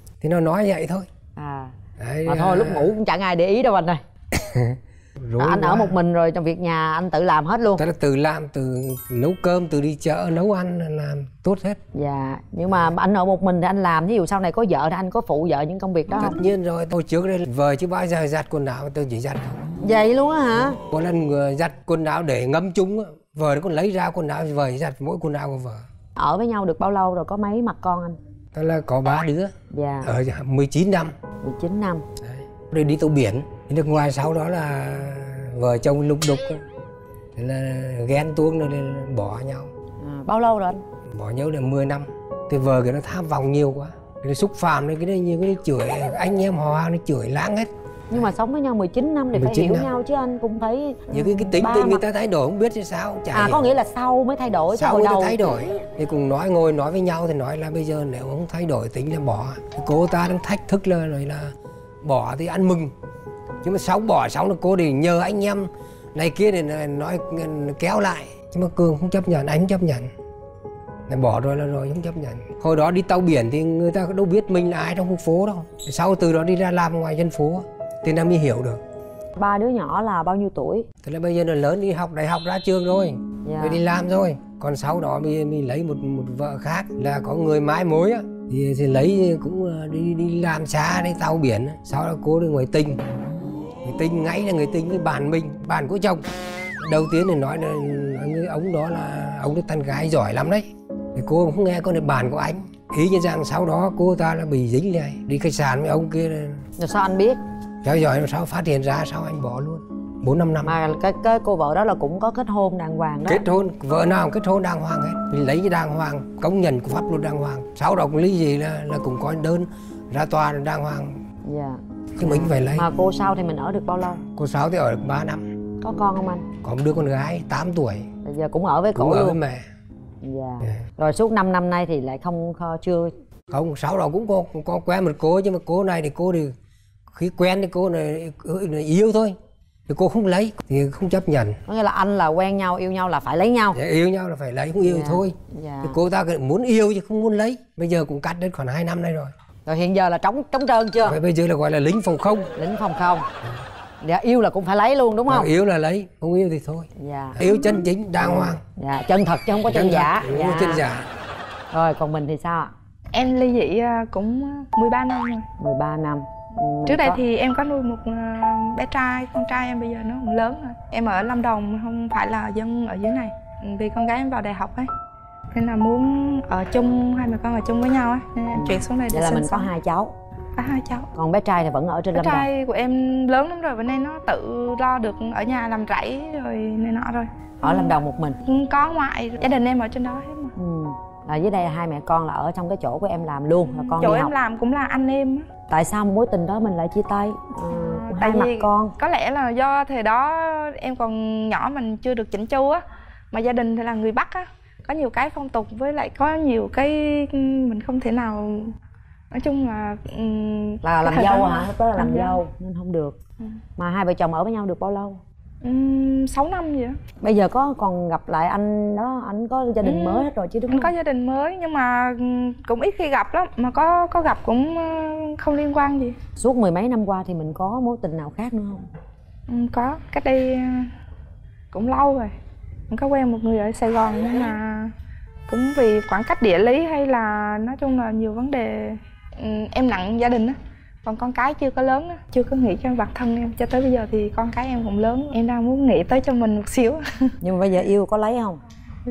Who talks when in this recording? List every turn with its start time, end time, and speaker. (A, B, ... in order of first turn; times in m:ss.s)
0:00.2-0:01.1 A
0:01.4-0:01.7 B
0:02.0-0:02.9 A
0:02.3-0:04.0 B
0:04.4-0:06.0 A
0:05.4-0:07.8 B
0:07.8-0:11.8 A
0:12.0-0:16.4 B
0:16.1-0:19.6 A
0:19.8-0:20.8 B
0:20.9-0:25.8 A
0:26.2-0:28.2 B
0:28.6-0:29.5 A
0:29.7-0:30.1 B
0:30.0-0:31.1 A
0:31.4-0:32.0 B
0:32.2-0:36.6 A
0:37.4-0:39.7 A
0:40.0-0:40.8 B
0:41.1-0:48.3 A
0:48.1-0:52.0 B
0:49.3-0:49.9 A
0:51.1-0:53.7 A
0:53.3-0:55.5 B
0:54.7-1:01.5 A
1:02.0-1:02.9 A
1:03.6-1:10.1 A
1:11.1-1:18.8 A
1:19.4-1:20.9 B
1:21.0-1:33.0 A
1:23.4-1:23.8 B
1:33.8-1:36.2 A
1:36.8-1:46.6 A
1:46.8-1:47.4 B
1:47.8-1:50.8 A
1:50.6-1:53.4 B
1:53.3-2:01.2 A
2:01.5-2:04.2 B
2:02.2-2:02.9 A
2:04.3-2:05.5 A
2:05.8-2:06.5 B
2:06.6-2:08.1 A
2:08.2-2:09.4 B
2:09.0-2:09.6 A
2:10.2-2:13.1 B
2:13.5-2:16.5 A
2:17.1-2:19.4 A
2:19.9-2:21.6 A
2:21.7-2:23.8 B
2:23.7-2:29.3 A
2:24.8-2:26.0 B
2:29.7-2:31.2 B
2:31.0-2:32.5 A
2:32.6-2:33.2 B
2:34.0-2:35.5 B
2:35.3-2:38.6 A
2:37.0-2:37.4 B
2:38.2-2:40.8 B
2:39.6-2:41.1 A
2:41.7-2:42.7 B
2:43.1-2:45.5 C
2:45.6-2:47.2 B
2:46.9-2:54.9 C
2:55.5-2:59.7 C
2:58.5-3:00.1 B
3:00.6-3:01.1 C
3:01.2-3:02.5 B
3:02.1-3:10.5 C
3:07.6-3:08.4 B
3:10.6-3:14.3 B
3:13.6-3:15.5 C
3:15.7-3:18.9 B
3:17.7-3:28.7 C
3:29.3-3:32.4 C
3:30.8-3:33.2 B
3:33.8-3:35.2 B
3:35.6-3:37.0 C
3:37.2-3:40.9 B
3:39.8-3:46.2 C
3:46.4-3:48.8 B
3:49.5-3:50.9 C
3:51.7-3:52.3 C
3:52.9-3:54.9 C
3:55.5-4:07.3 C
4:07.4-4:08.6 B